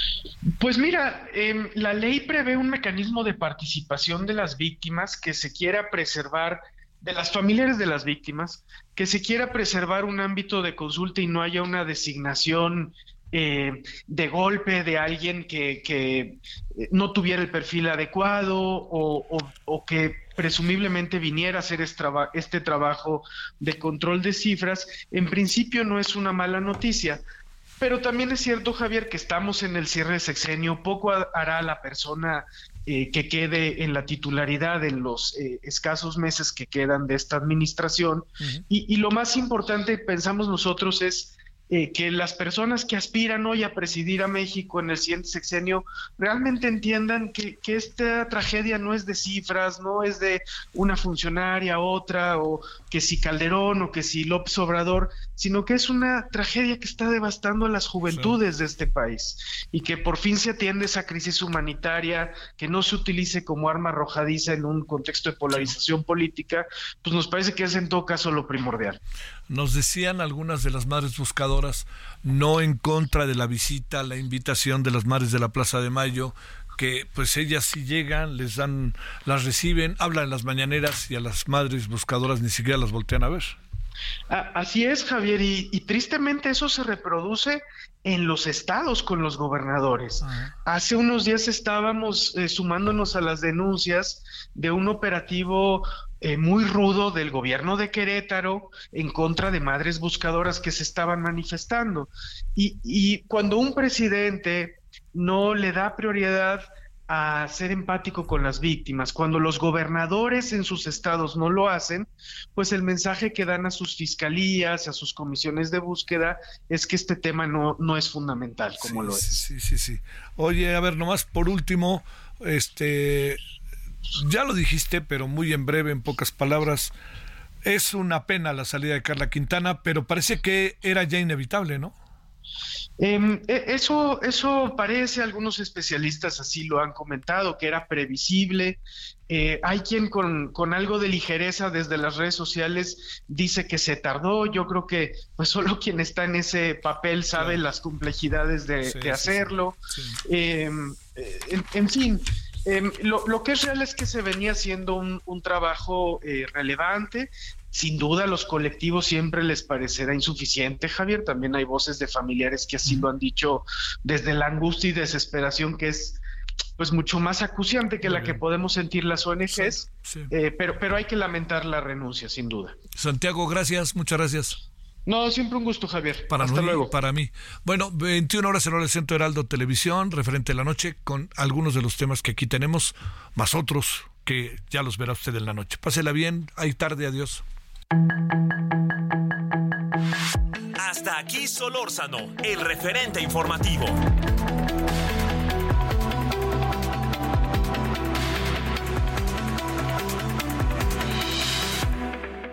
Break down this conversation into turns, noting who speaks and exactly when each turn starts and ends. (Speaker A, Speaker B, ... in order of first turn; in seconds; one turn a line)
Speaker A: 0.6-27.2
Speaker A: 27.8-69.0
Speaker B: 58.1-58.4
Speaker B: 69.5-83.6
Speaker A: 84.3-119.5
Speaker B: 90.2-90.5
Speaker B: 118.8-123.4
Speaker B: 124.2-126.9
Speaker B: 127.6-131.9
Speaker A: 133.0-166.2
Speaker B: 147.3-147.6
Speaker B: 148.8-150.2
Speaker A: 166.8-172.8
Speaker B: 168.0-168.4
Speaker B: 169.5-170.3
Speaker B: 172.9-174.6
Speaker A: 175.1-176.9
Speaker B: 176.3-187.4
Speaker C: 190.8-194.0